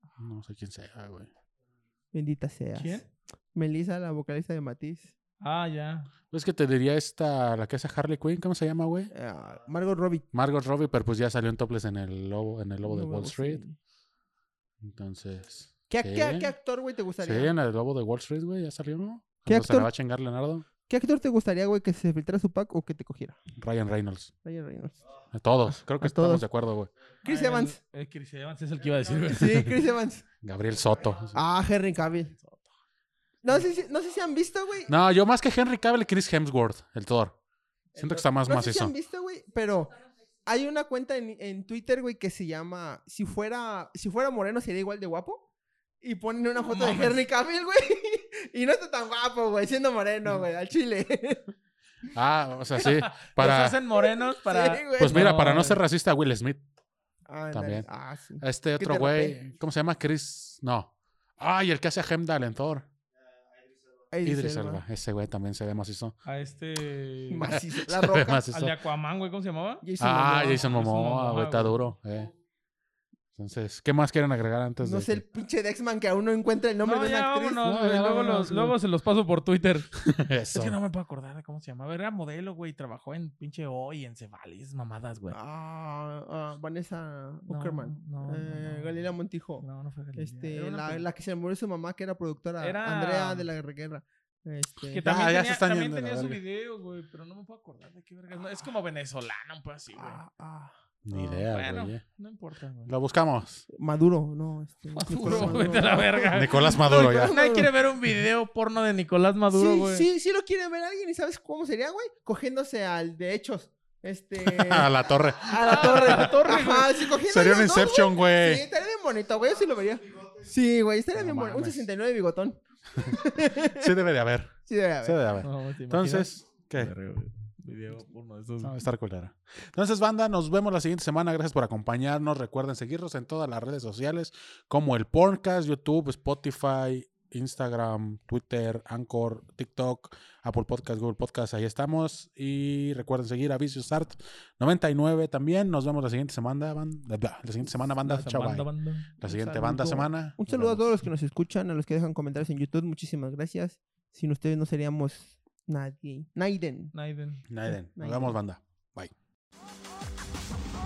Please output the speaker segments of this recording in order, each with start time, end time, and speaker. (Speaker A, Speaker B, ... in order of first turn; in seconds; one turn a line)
Speaker A: 0.2-1.3
Speaker B: 2.1-5.1
Speaker C: 2.8-3.0
Speaker C: 5.4-6.1
Speaker A: 6.3-9.1
Speaker B: 9.1-10.2
Speaker A: 10.3-13.6
Speaker B: 12.8-13.8
Speaker A: 14.8-16.5
Speaker B: 15.9-17.5
Speaker A: 17.2-20.6
Speaker B: 19.5-19.9
Speaker B: 20.8-23.4
Speaker A: 23.6-24.3
Speaker B: 24.4-25.0
Speaker A: 25.3-26.9
Speaker B: 26.0-26.4
Speaker B: 27.2-27.8
Speaker C: 27.2-29.7
Speaker B: 29.3-30.2
Speaker A: 30.4-31.4
Speaker B: 31.3-32.3
Speaker C: 32.3-32.7
Speaker B: 33.4-34.9
Speaker A: 34.9-37.4
Speaker B: 37.9-45.4
Speaker A: 38.0-38.9
Speaker B: 46.0-51.4
Speaker C: 46.6-47.2
Speaker A: 52.1-53.8
Speaker C: 52.8-55.8
Speaker B: 53.9-55.3
Speaker A: 55.0-56.6
Speaker B: 57.3-59.5
Speaker A: 57.5-57.9
Speaker A: 58.4-62.9
Speaker B: 64.1-64.8
Speaker A: 64.2-66.1
Speaker C: 66.2-67.5
Speaker B: 67.3-68.4
Speaker A: 67.5-68.7
Speaker C: 68.5-69.8
Speaker B: 69.8-70.7
Speaker A: 70.0-72.3
Speaker C: 70.4-71.8
Speaker A: 73.3-75.2
Speaker B: 74.8-78.8
Speaker C: 76.8-79.9
Speaker A: 77.6-78.3
Speaker A: 80.0-80.8
Speaker C: 80.5-85.3
Speaker B: 85.3-89.6
Speaker C: 87.5-89.1
Speaker C: 89.6-91.0
Speaker B: 90.2-95.1
Speaker C: 92.6-93.5
Speaker C: 94.9-100.2
Speaker A: 95.0-96.4
Speaker B: 99.9-101.4
Speaker A: 101.0-102.0
Speaker C: 101.3-102.9
Speaker A: 102.9-103.7
Speaker B: 103.7-107.7
Speaker C: 104.9-110.1
Speaker A: 106.3-107.3
Speaker B: 109.5-123.9
Speaker A: 114.4-116.3
Speaker C: 115.6-117.1
Speaker A: 117.2-118.6
Speaker A: 121.1-121.8
Speaker A: 123.0-126.9
Speaker B: 124.7-125.2
Speaker C: 125.4-128.8
Speaker A: 128.6-148.7
Speaker C: 148.0-149.1
Speaker A: 149.2-150.8
Speaker B: 149.2-156.9
Speaker C: 156.9-157.4
Speaker A: 157.5-159.1
Speaker B: 157.9-158.3